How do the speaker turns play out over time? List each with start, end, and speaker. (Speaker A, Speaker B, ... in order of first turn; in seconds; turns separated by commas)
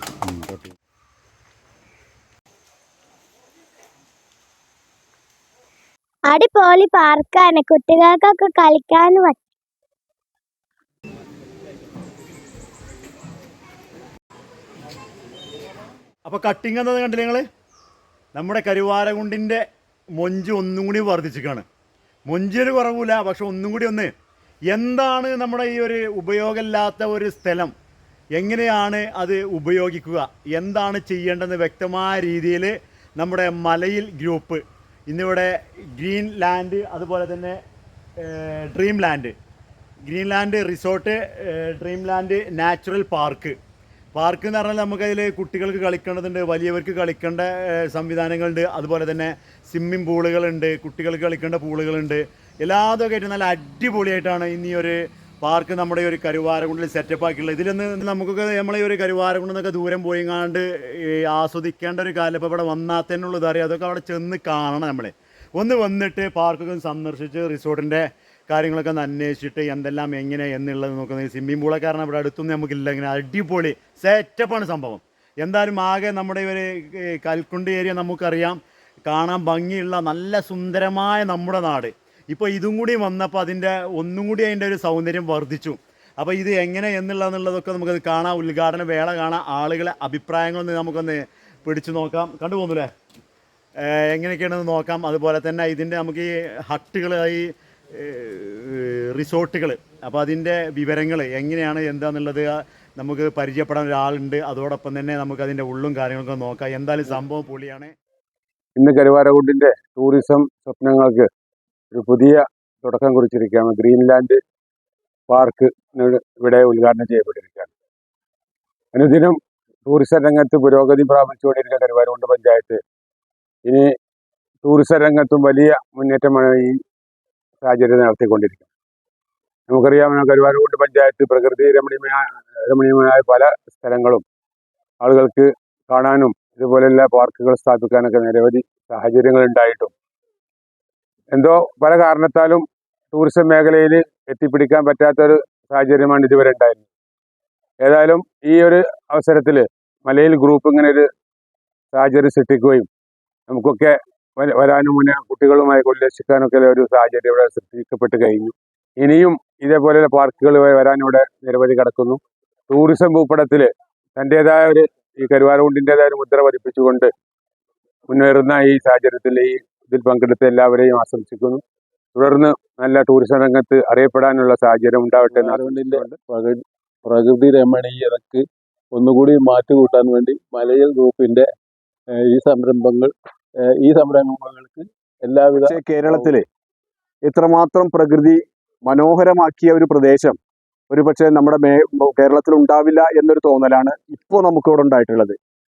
Speaker A: 0.3-0.7, Speaker B: 6.3-9.4, Speaker A: 16.2-17.4, Speaker A: 18.4-19.6, Speaker A: 20.2-21.6, Speaker A: 22.3-24.1, Speaker A: 24.7-27.7, Speaker A: 28.4-37.6, Speaker A: 38.2-39.3, Speaker A: 40.1-43.5, Speaker A: 44.2-92.9, Speaker A: 93.8-107.9, Speaker C: 108.8-111.3, Speaker C: 111.9-114.4, Speaker C: 115.3-117.7, Speaker C: 118.9-122.8, Speaker C: 124.6-126.8, Speaker C: 127.6-128.7, Speaker C: 129.7-134.2, Speaker C: 135.0-139.9, Speaker C: 141.3-146.9, Speaker C: 147.8-151.1, Speaker C: 151.9-152.9, Speaker C: 153.5-167.1, Speaker C: 168.1-171.6, Speaker C: 172.2-175.5, Speaker D: 175.3-181.5, Speaker E: 175.5-176.2, Speaker D: 182.2-183.1, Speaker D: 183.7-186.4, Speaker E: 185.6-186.4, Speaker E: 187.2-190.4, Speaker E: 190.9-195.4